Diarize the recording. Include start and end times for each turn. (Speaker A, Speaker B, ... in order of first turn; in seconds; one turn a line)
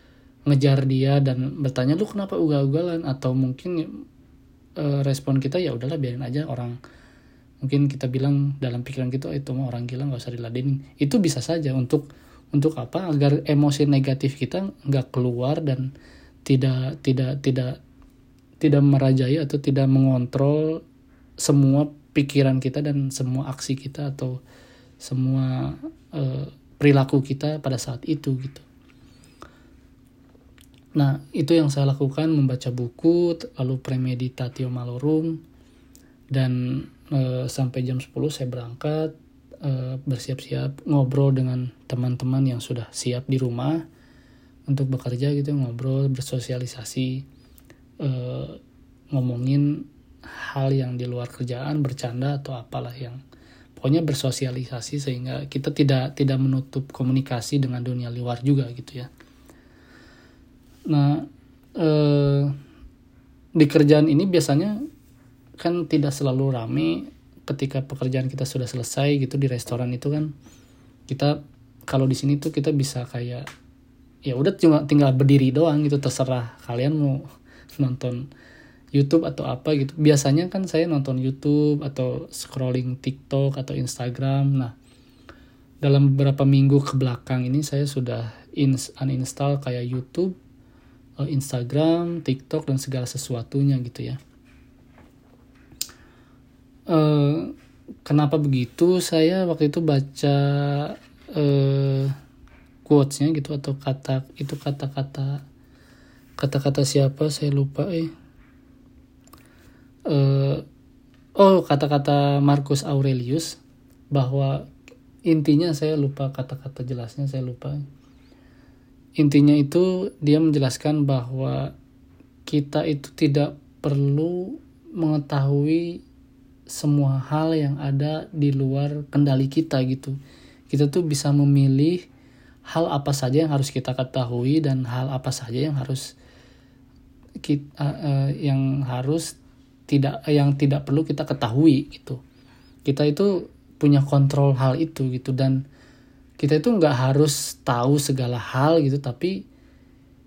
Speaker A: 0.5-4.0
Speaker A: 4.8-6.8
Speaker A: 7.6-15.9
Speaker A: 16.5-17.8
Speaker A: 18.6-20.8
Speaker A: 21.4-24.4
Speaker A: 25.0-28.6
Speaker A: 31.0-35.4
Speaker A: 36.3-43.8
Speaker A: 44.7-47.2
Speaker A: 48.0-48.6
Speaker A: 49.1-53.2
Speaker A: 53.8-59.1
Speaker A: 60.9-62.6
Speaker A: 63.6-64.8
Speaker A: 65.6-70.3
Speaker A: 71.1-73.5
Speaker A: 74.3-77.2
Speaker A: 77.8-78.2
Speaker A: 79.0-84.8
Speaker A: 85.8-90.4
Speaker A: 91.2-94.2
Speaker A: 96.9-97.5
Speaker A: 98.0-102.2
Speaker A: 102.8-105.4
Speaker A: 106.4-108.1
Speaker A: 110.1-110.7
Speaker A: 111.4-113.6
Speaker A: 114.1-114.7
Speaker A: 115.3-117.8
Speaker A: 119.2-121.7
Speaker A: 122.5-126.0
Speaker A: 126.7-130.2
Speaker A: 130.7-132.0
Speaker A: 132.7-136.1
Speaker A: 137.4-139.3
Speaker A: 139.9-142.2
Speaker A: 142.9-145.6
Speaker A: 146.4-149.4